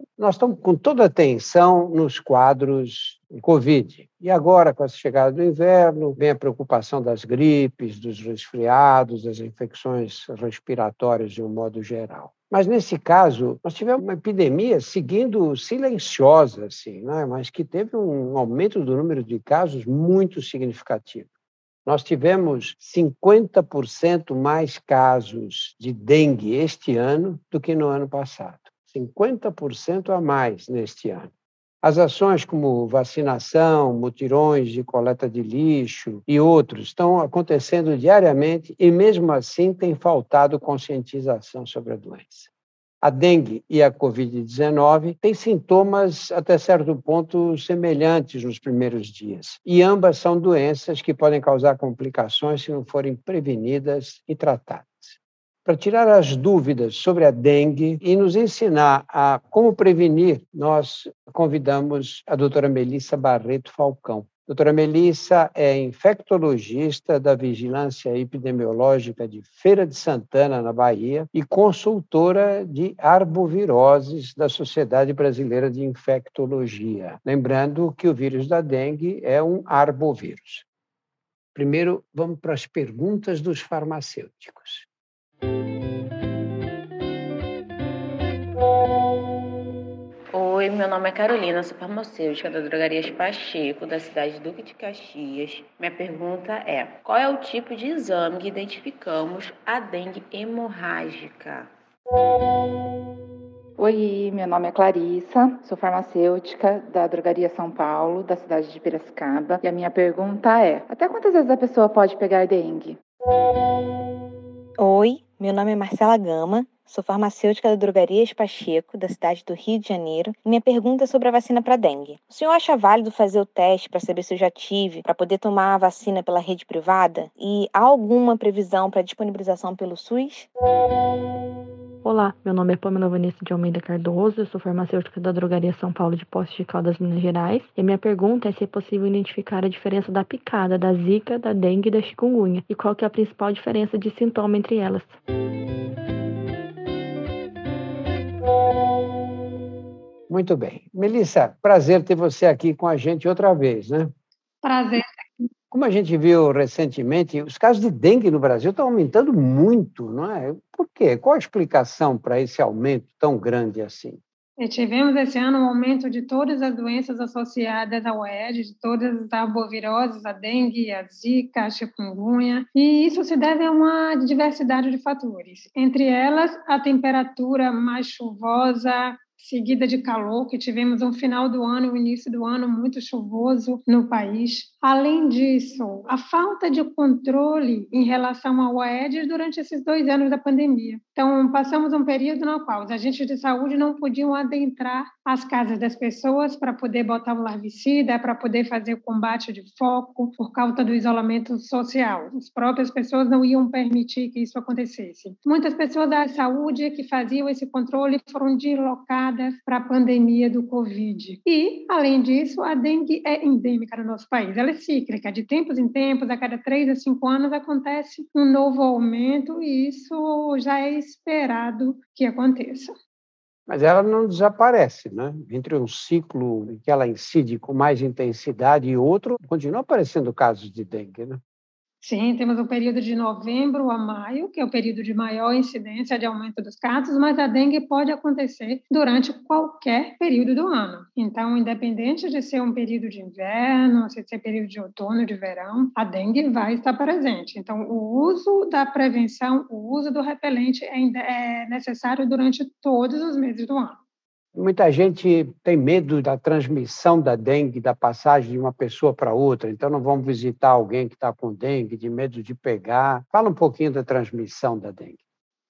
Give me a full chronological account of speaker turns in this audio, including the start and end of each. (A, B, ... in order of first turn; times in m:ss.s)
0:00.2-0:21.3 A
0:21.9-0:31.3 A
0:31.8-0:42.5 A
0:43.0-1:20.6 A
1:21.6-1:24.9 A
1:30.3-1:41.7 B
1:43.8-1:53.0 C
1:54.8-2:10.5 D
2:12.0-2:25.2 E
2:30.3-2:34.1 A
2:34.6-2:35.0 F
2:35.7-2:44.2 A
2:44.6-3:42.9 F
3:43.7-3:51.4 A
3:52.0-4:14.0 F
4:14.6-4:25.2 A